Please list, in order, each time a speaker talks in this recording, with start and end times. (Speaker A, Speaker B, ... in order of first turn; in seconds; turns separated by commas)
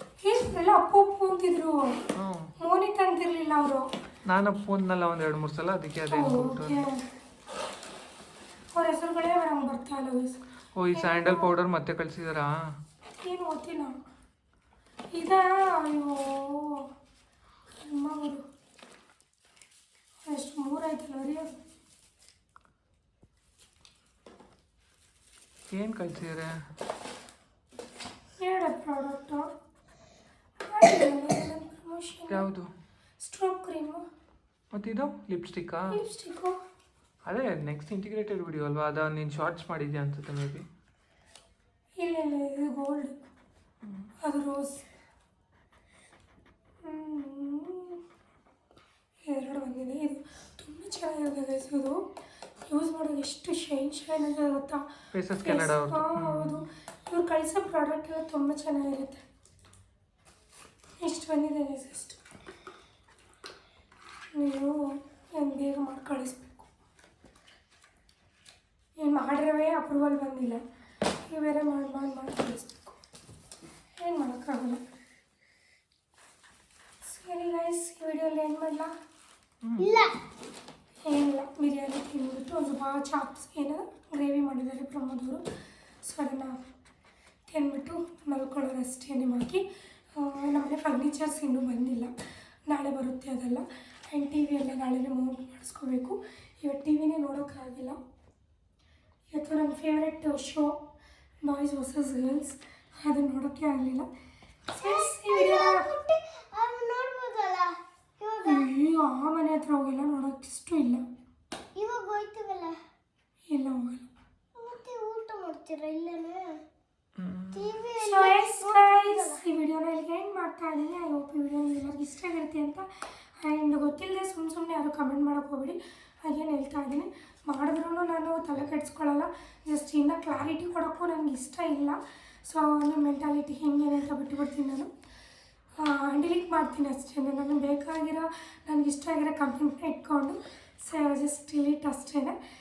Speaker A: 0.2-2.0, Speaker B: 2.1-2.5, Speaker A: 2.6-3.9, Speaker B: 4.3-6.9, Speaker A: 6.1-7.0, Speaker A: 8.7-10.4, Speaker B: 10.8-12.8, Speaker A: 10.9-11.5, Speaker A: 13.2-14.0, Speaker A: 15.1-16.9, Speaker A: 17.7-18.4, Speaker A: 20.3-21.6, Speaker B: 25.7-26.6, Speaker A: 28.4-29.5, Speaker A: 30.6-32.5, Speaker B: 32.3-32.7, Speaker A: 33.2-34.0, Speaker B: 34.7-36.0, Speaker A: 35.9-36.6, Speaker B: 37.3-40.7, Speaker A: 42.0-43.1, Speaker A: 44.2-44.9, Speaker A: 46.8-48.0, Speaker A: 49.2-52.1, Speaker A: 52.7-54.9, Speaker B: 55.1-56.6, Speaker A: 55.4-59.2, Speaker A: 61.0-62.2, Speaker A: 64.3-66.7, Speaker A: 69.0-70.6, Speaker A: 71.3-73.0, Speaker A: 74.0-74.8, Speaker A: 77.0-78.9, Speaker B: 79.6-79.9, Speaker C: 79.8-80.1, Speaker A: 81.1-85.4, Speaker A: 86.0-86.6, Speaker A: 87.5-92.1, Speaker A: 92.7-98.0, Speaker A: 99.3-100.8, Speaker A: 101.4-104.1, Speaker A: 104.7-105.9, Speaker C: 104.8-108.7, Speaker A: 108.4-111.0, Speaker C: 111.8-112.8, Speaker A: 113.5-114.1, Speaker C: 114.5-116.6, Speaker B: 117.2-117.7, Speaker C: 117.5-119.4, Speaker A: 118.0-122.9, Speaker A: 123.4-134.9, Speaker A: 135.8-142.4